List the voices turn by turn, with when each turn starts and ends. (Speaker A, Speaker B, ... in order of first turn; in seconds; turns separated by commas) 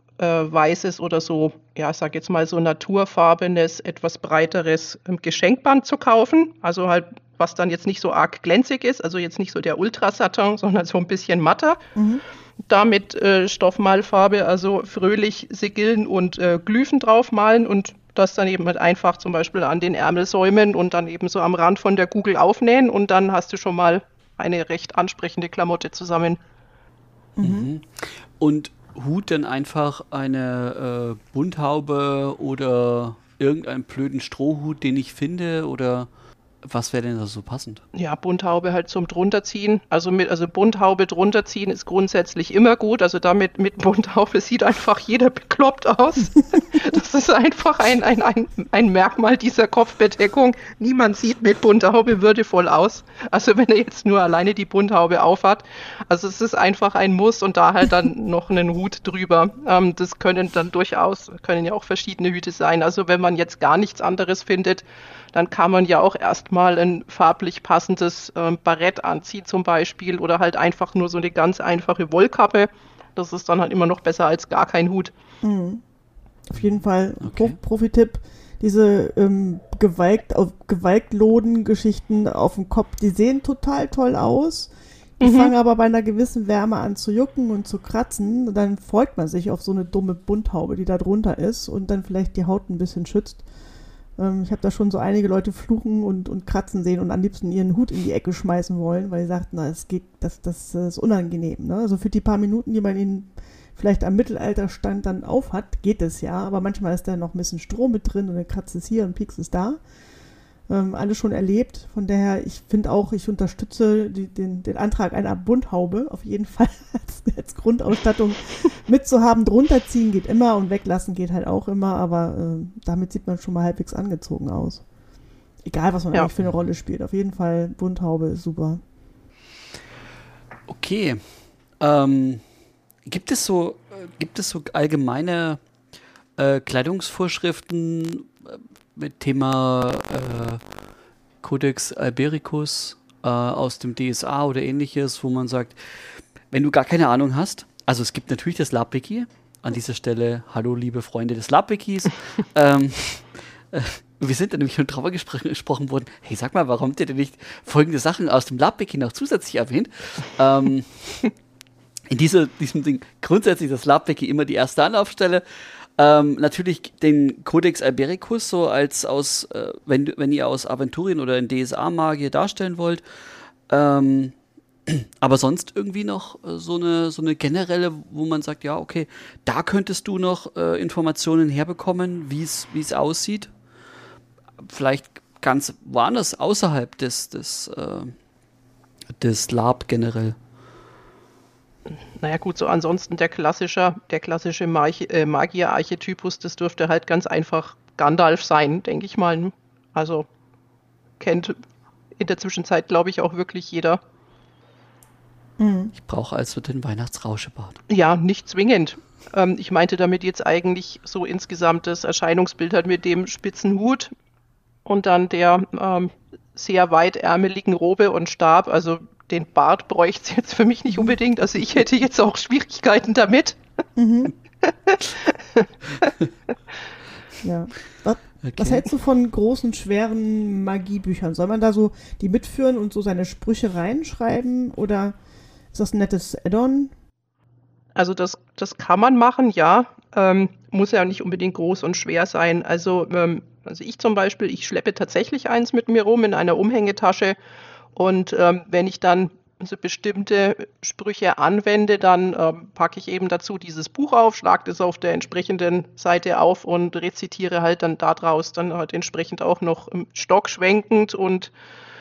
Speaker A: 0.2-11.8, Speaker B: 11.9-12.2, Speaker A: 12.7-26.4, Speaker C: 27.4-36.1, Speaker B: 27.4-27.7, Speaker C: 36.6-37.8, Speaker A: 37.9-75.1, Speaker B: 75.4-75.8, Speaker B: 76.5-93.4, Speaker C: 77.2-77.6, Speaker A: 85.2-85.5, Speaker B: 94.2-109.8, Speaker B: 110.7-124.8, Speaker B: 125.6-128.8, Speaker C: 130.7-131.3, Speaker C: 131.8-132.4, Speaker C: 133.1-135.6, Speaker C: 136.4-140.6, Speaker C: 141.4-161.3, Speaker C: 162.1-165.4, Speaker C: 166.0-173.0, Speaker C: 173.7-174.3, Speaker C: 174.9-183.5, Speaker C: 184.6-188.1, Speaker C: 189.1-190.4, Speaker A: 192.2-200.2, Speaker A: 201.2-201.6, Speaker A: 202.2-204.0, Speaker B: 205.6-205.9, Speaker C: 205.9-207.8, Speaker A: 207.9-214.1, Speaker A: 214.8-223.6, Speaker B: 224.0-224.3, Speaker A: 224.6-226.1, Speaker B: 227.4-235.2, Speaker C: 228.4-228.8, Speaker B: 235.7-236.9, Speaker A: 237.9-247.3, Speaker A: 247.9-261.5